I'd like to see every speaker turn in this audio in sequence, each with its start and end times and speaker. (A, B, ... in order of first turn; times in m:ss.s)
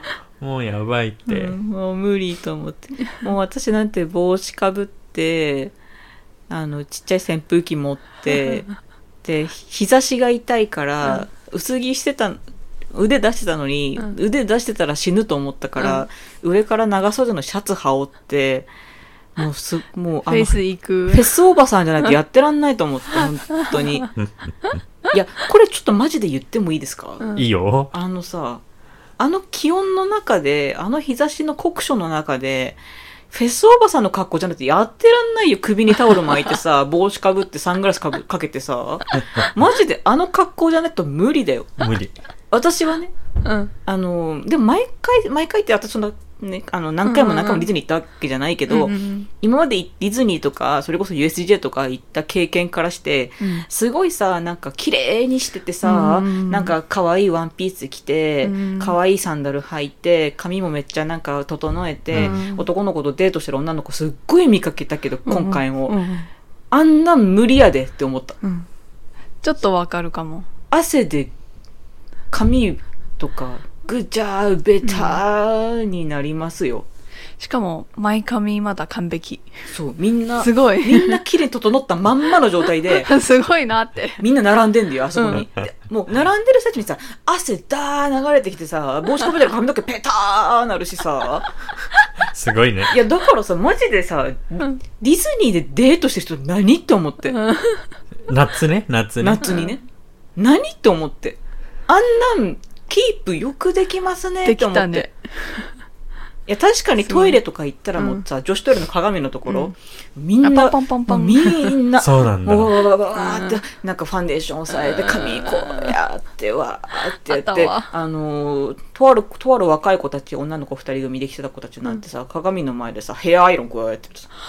0:00.4-0:01.6 A
0:01.3-0:05.7 B
0:06.5-0:08.7 B
0:08.4-0:08.7 C
0:09.2-0:12.4 B
0:12.9-0:18.7 B
0:19.4-0:24.1 B
0:20.3-0:21.3 C
0:23.6-0:24.0 C
0:25.1-0:27.3 B
0:27.4-0:27.9 A
0:27.9-0:28.6 B
0:29.2-0:32.8 B
0:33.3-0:41.8 B
0:41.8-0:42.1 A
0:42.5-0:43.1 B
0:43.4-0:43.7 C
0:43.8-1:06.0 B
0:47.0-0:47.7 C
0:48.7-0:49.3 C
0:53.4-0:53.6 C
0:55.8-0:56.7 C
0:58.4-0:58.9 C
1:02.2-1:02.6 C
1:05.2-1:06.3 C
1:06.7-1:08.4 B
1:08.4-1:08.7 C
1:09.4-1:10.5 C
1:10.7-1:11.3 B
1:12.3-1:16.8 B
1:14.8-1:15.2 C
1:17.4-1:19.5 C
1:19.7-1:23.1 B
1:20.4-1:21.2 C
1:22.9-1:24.2 C
1:24.2-1:31.5 B
1:25.2-1:25.4 C
1:32.3-1:33.0 A
1:32.9-1:37.4 B
1:37.3-1:37.9 C
1:38.3-1:39.6 A
1:39.2-1:39.8 B
1:39.4-1:39.7 C
1:40.4-1:45.1 B
1:44.4-1:45.7 C
1:46.5-2:04.3 B
1:47.1-1:47.4 C
1:48.0-1:48.2 C
1:49.5-1:49.7 C
1:50.4-1:51.8 C
1:52.0-1:52.7 A
1:53.2-1:53.6 C
1:54.8-1:55.9 C
1:57.2-1:57.9 C